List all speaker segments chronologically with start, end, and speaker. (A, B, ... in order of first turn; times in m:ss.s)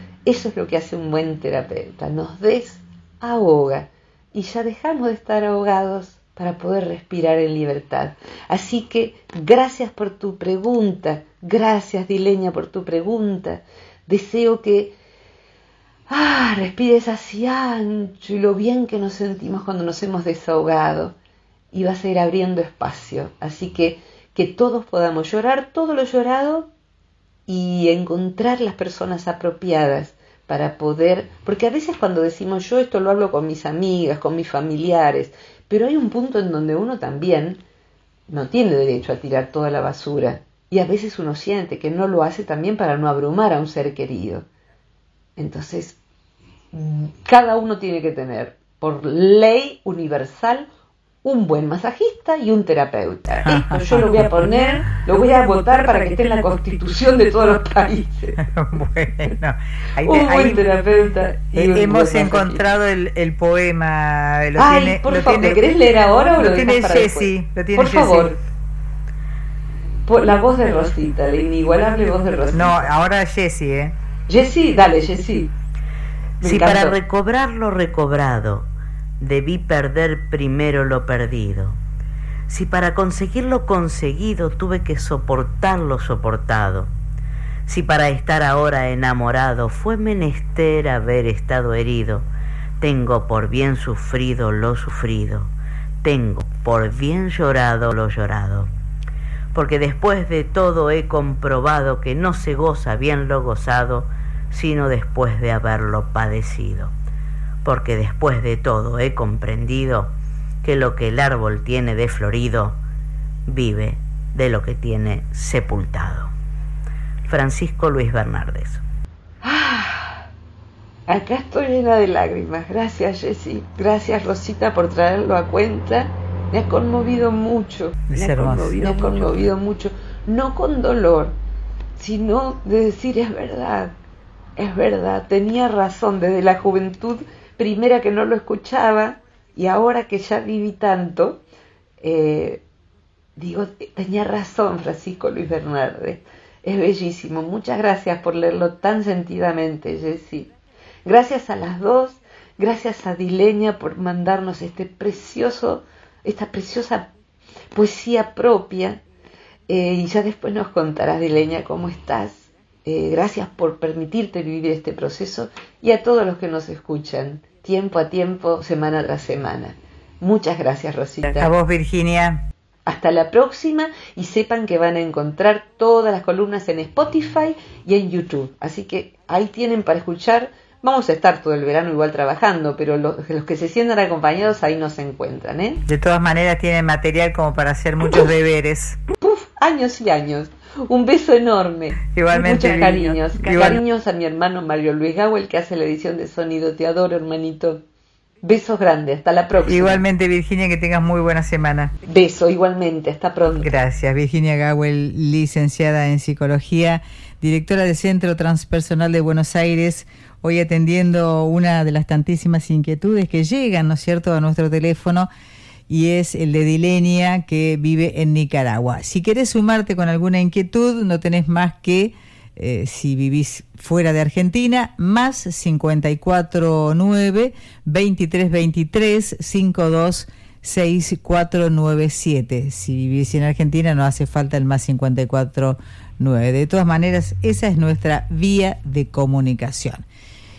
0:00.2-0:15.0 A
0:16.1-0:21.2 A
0:21.7-0:26.7 A
0:27.5-0:37.6 A
0:38.3-0:44.4 A
0:45.4-0:46.0 A
0:46.7-0:50.7 A
0:51.2-0:58.4 A
0:53.4-0:54.4 B
0:58.4-1:00.6 B
1:00.0-1:02.7 A
1:01.5-1:08.4 B
1:04.6-1:08.4 A
1:10.1-1:12.9 A
1:12.5-1:13.9 B
1:14.3-1:15.5 A
1:16.4-1:17.0 A
1:16.4-1:18.7 C
1:19.2-1:21.8 C
1:22.5-1:26.9 C
1:27.7-1:32.2 C
1:32.8-1:35.5 C
1:36.0-1:38.7 C
1:39.5-1:46.9 C
1:47.6-1:50.1 C
1:50.6-1:52.8 C
1:53.5-1:56.3 C
1:57.2-1:58.8 C
1:59.4-2:00.2 A
2:01.1-2:11.4 A
2:08.1-2:08.8 B
2:12.0-2:13.9 A
2:14.6-2:21.4 A
2:22.0-2:22.6 A
2:23.4-2:30.5 A
2:31.0-2:37.1 A
2:37.7-2:39.0 A
2:39.7-2:51.5 A
2:51.4-2:52.4 B
2:52.8-3:05.8 A
3:05.8-3:09.0 B
3:09.2-3:17.8 A
3:12.1-3:13.8 B
3:18.4-3:20.0 A
3:19.6-3:21.9 B
3:22.0-3:23.7 A
3:23.6-3:35.3 B
3:35.9-4:00.0 B